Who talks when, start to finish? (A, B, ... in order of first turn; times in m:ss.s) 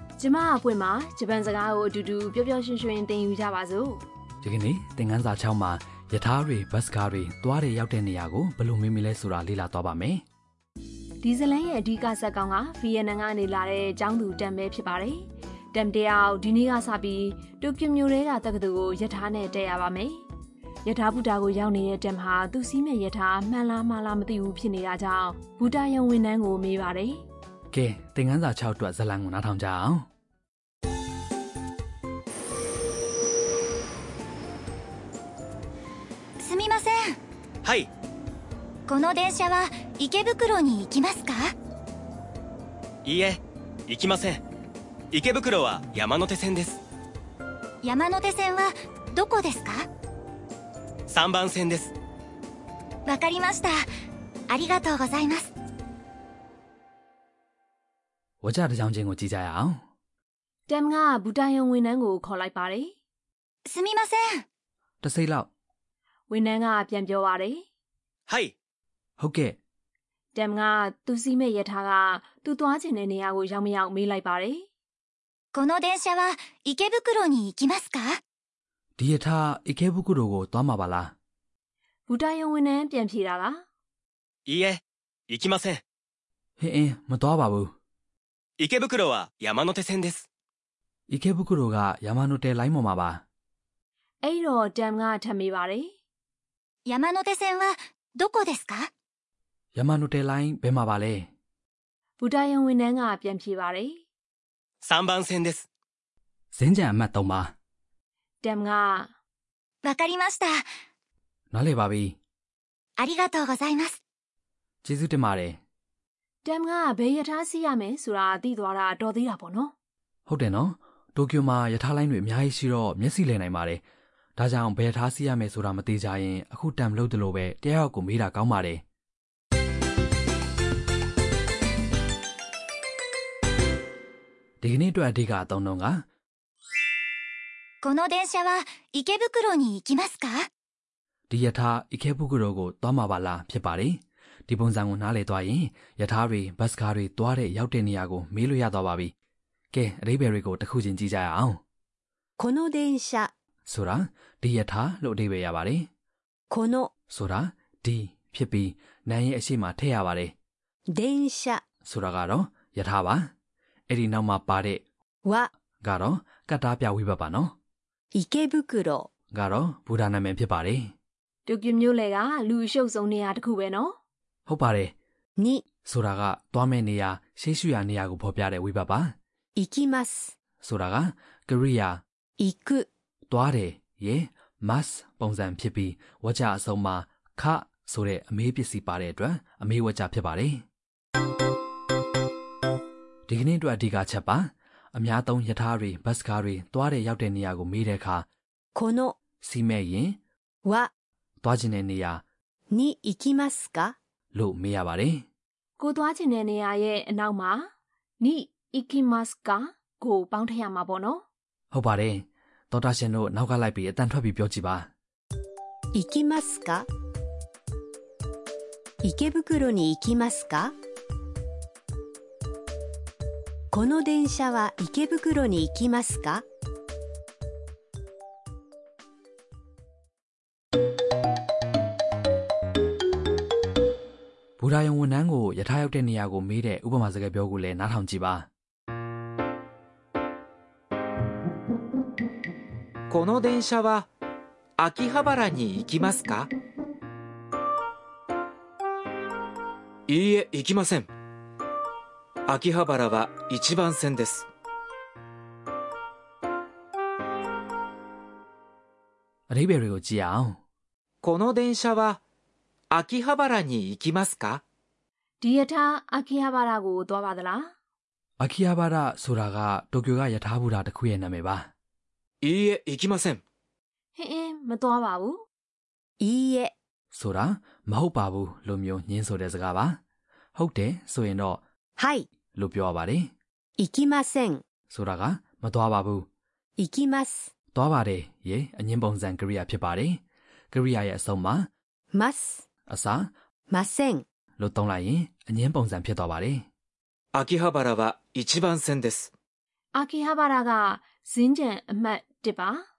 0:00.2-0:04.0 A
0:04.4-0:10.2 B
0:11.2-0:20.2 A
0:20.8-0:27.2 A
0:27.7-0:30.1 B
0:36.4-0:37.2 C
0:37.6-0:37.9 D
0:38.9-0:41.5 C
0:43.0-0:44.4 D
0:45.1-0:46.8 D
0:47.8-0:49.9 C
0:51.1-0:51.9 D
0:53.0-0:53.8 C
0:54.5-0:55.5 C
0:58.4-0:59.8 B
1:00.7-1:02.9 A
1:03.6-1:04.4 C
1:05.0-1:05.5 B
1:06.3-1:07.6 A
1:08.3-1:08.5 D
1:09.2-1:09.6 B
1:10.3-1:14.7 A
1:15.5-1:18.2 C
1:19.0-1:21.1 B
1:22.1-1:23.6 A
1:24.4-1:25.8 D
1:26.6-1:27.7 B
1:28.6-1:30.3 D
1:31.1-1:33.2 B
1:34.2-1:35.9 A
1:36.8-1:38.9 C
1:39.7-1:41.3 B
1:42.2-1:44.0 A
1:44.8-1:45.7 D
1:46.5-1:47.5 B
1:48.4-1:49.1 A
1:49.8-1:50.6 C
1:51.5-1:52.2 B
1:53.0-1:54.0 C
1:54.8-1:55.6 B
1:56.4-1:59.7 A
2:00.3-2:03.8 B
2:04.4-2:08.8 B
2:14.6-2:16.0 B
2:17.8-2:20.4 C
2:21.3-2:29.1 B
2:29.7-2:31.6 B
2:32.4-2:33.3 E
2:33.6-2:35.9 B
2:36.5-2:36.9 E
2:37.1-2:40.3 B
2:40.9-2:41.6 E
2:41.8-2:43.3 B
2:43.9-2:44.8 B
2:45.2-2:45.5 E
2:45.8-2:47.5 B
2:48.1-2:49.1 E
2:49.3-2:50.9 B
2:51.4-2:53.9 A
2:54.5-2:54.9 B
2:55.4-2:55.6 E
2:55.8-2:59.1 B
2:59.6-3:00.3 E
3:00.6-3:02.0 B
3:02.4-3:02.8 E
3:03.3-3:10.6 B
3:13.3-3:18.2 B
3:18.8-3:19.2 E
3:19.4-3:20.2 B
3:20.6-3:20.9 E
3:21.4-3:22.2 B
3:22.7-3:24.0 E
3:24.3-3:25.2 B
3:25.8-3:27.7 A
3:28.2-3:31.2 A
3:31.7-3:34.9 B
3:35.9-3:36.9 E
3:39.0-3:40.7 E
3:43.7-3:46.4 E
3:54.6-3:58.5 B
4:03.1-4:04.1 F
4:04.8-4:06.5 F
4:10.1-4:11.1 F
4:12.5-4:14.5 F
4:19.5-4:20.6 B
4:21.2-4:22.2 F
4:22.9-4:24.6 F
4:25.4-4:27.7 A
4:28.4-4:31.7 B
4:32.4-4:33.4 F
4:34.1-4:35.4 A
4:36.2-4:36.7 E
4:37.1-4:40.0 B
4:40.6-4:41.6 B
4:42.0-4:42.2 E
4:42.5-4:43.3 B
4:43.8-4:44.6 E
4:44.9-4:46.3 B
4:46.8-4:47.5 E
4:47.7-4:50.2 B
4:50.7-4:51.7 B
4:52.1-4:52.6 E
4:52.9-4:53.3 B
4:53.7-4:54.2 E
4:54.6-4:56.6 B
4:57.3-4:59.3 F
4:59.9-5:02.8 A